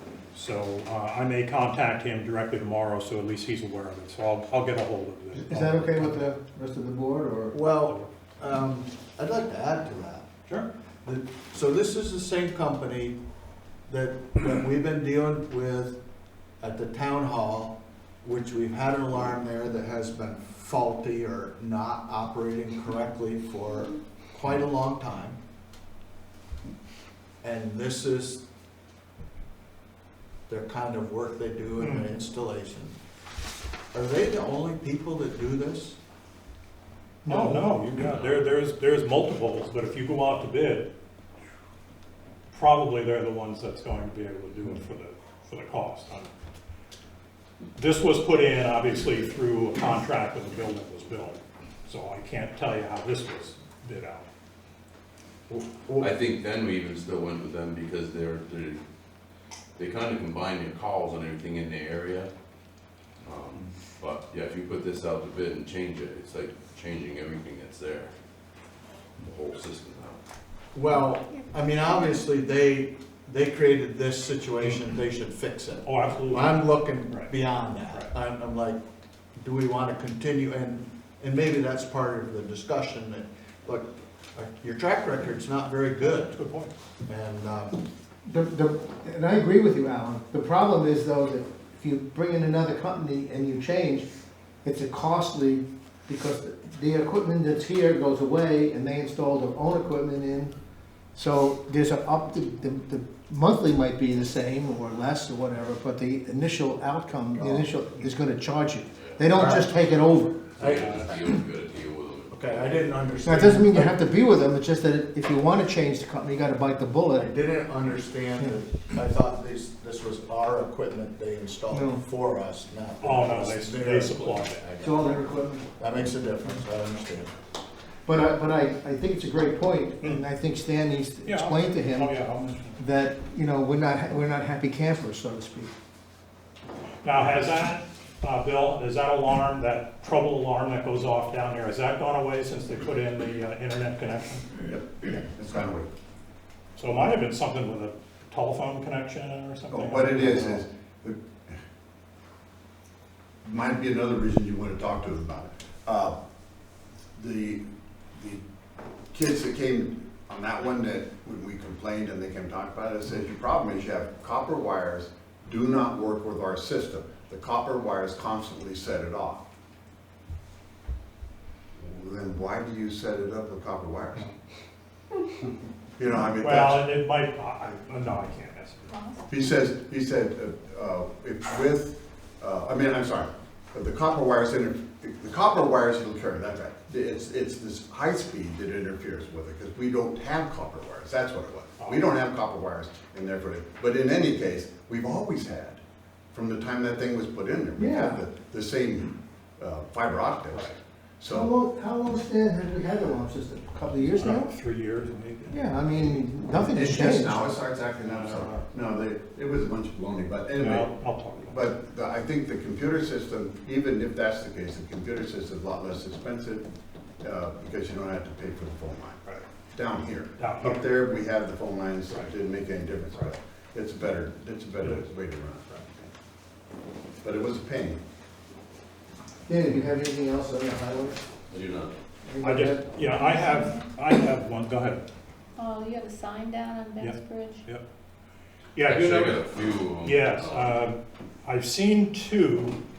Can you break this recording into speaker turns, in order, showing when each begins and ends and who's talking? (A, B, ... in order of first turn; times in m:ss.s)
0:00.3-0:06.2 A
0:05.3-0:07.6 B
0:07.5-0:10.3 C
0:11.0-0:13.2 C
0:13.9-0:16.0 C
0:16.6-0:25.4 C
0:27.4-0:28.4 C
0:30.5-0:33.0 C
0:31.8-0:32.0 A
0:33.9-0:36.0 C
0:37.2-0:40.9 A
0:37.3-0:37.6 C
0:38.0-0:38.4 D
0:42.5-0:46.3 A
0:47.8-0:54.3 A
0:55.5-0:56.1 C
0:56.0-0:58.8 D
0:59.8-1:02.3 D
1:03.2-1:08.1 D
1:09.2-1:10.2 D
1:10.7-1:18.8 C
1:11.0-1:12.2 E
1:15.8-1:17.3 A
1:17.9-1:18.1 A
1:19.4-1:26.4 C
1:26.0-1:26.7 A
1:27.1-1:27.8 C
1:28.2-1:34.1 B
1:34.6-1:40.5 B
1:41.1-1:50.6 B
1:47.4-1:47.7 C
1:49.3-1:49.8 C
1:50.6-1:51.3 C
1:50.6-1:53.0 D
1:52.3-1:54.0 C
1:53.2-1:57.3 B
1:57.2-2:05.2 C
2:01.7-2:02.0 B
2:03.0-2:04.7 A
2:04.8-2:06.0 B
2:05.8-2:07.3 C
2:08.1-2:12.2 B
2:11.3-2:12.8 A
2:12.8-2:15.7 B
2:17.0-2:24.5 A
2:24.6-2:25.9 F
2:26.8-2:30.6 A
2:29.7-2:31.6 F
2:33.4-2:36.2 F
2:37.2-2:38.4 F
2:39.1-2:49.4 F
2:51.8-2:54.3 F
2:56.0-2:56.8 F
2:56.4-2:58.9 A
2:58.9-2:59.3 E
2:59.3-3:15.8 F
3:11.8-3:12.1 A
3:16.3-3:21.5 F
3:17.8-3:18.2 B
3:20.5-3:20.8 A
3:21.3-3:24.5 B
3:24.0-3:26.3 A
3:25.5-3:27.6 B
3:26.6-3:30.9 F
3:28.1-3:28.6 A
3:30.6-3:31.6 A
3:31.5-3:39.2 F
3:39.7-3:46.1 F
3:40.4-3:40.9 A
3:47.2-3:48.0 F
3:49.5-3:51.2 B
3:51.5-3:51.9 D
3:52.2-3:52.9 B
3:52.4-3:55.0 A
3:53.4-3:53.8 E
3:55.6-3:57.6 E
3:57.0-3:57.8 A
3:58.8-3:59.4 A
3:58.8-4:00.8 D
4:00.0-4:02.8 A